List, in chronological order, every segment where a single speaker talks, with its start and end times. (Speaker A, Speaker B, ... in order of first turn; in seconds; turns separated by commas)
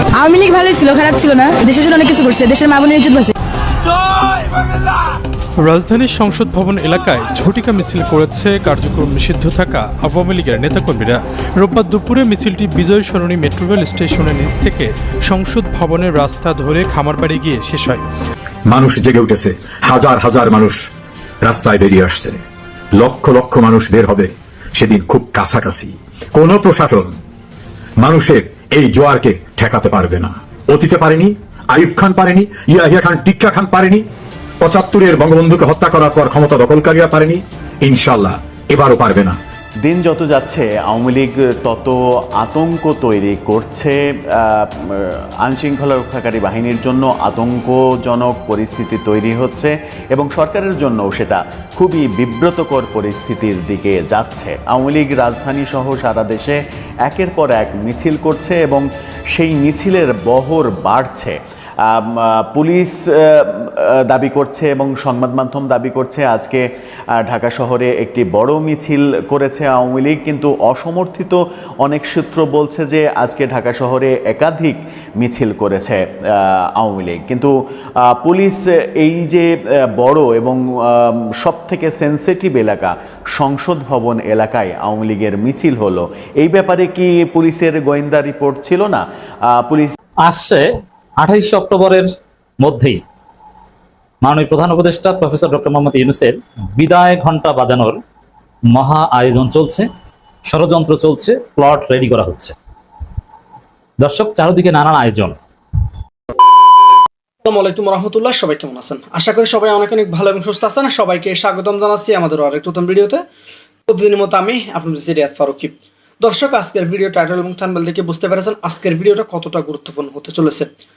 Speaker A: 0.1-3.3, Speaker B: 5.6-18.0, Speaker C: 18.7-20.9, Speaker C: 21.4-22.4, Speaker C: 22.9-27.1, Speaker C: 28.0-34.0, Speaker C: 34.6-39.4, Speaker D: 39.8-66.6, Speaker D: 67.1-89.9, Speaker E: 90.2-90.7, Speaker E: 91.2-92.0, Speaker E: 92.6-93.0, Speaker E: 94.2-98.0, Speaker E: 98.7-99.9, Speaker E: 100.5-102.5, Speaker E: 104.0-105.4, Speaker F: 107.4-113.2, Speaker F: 113.9-120.7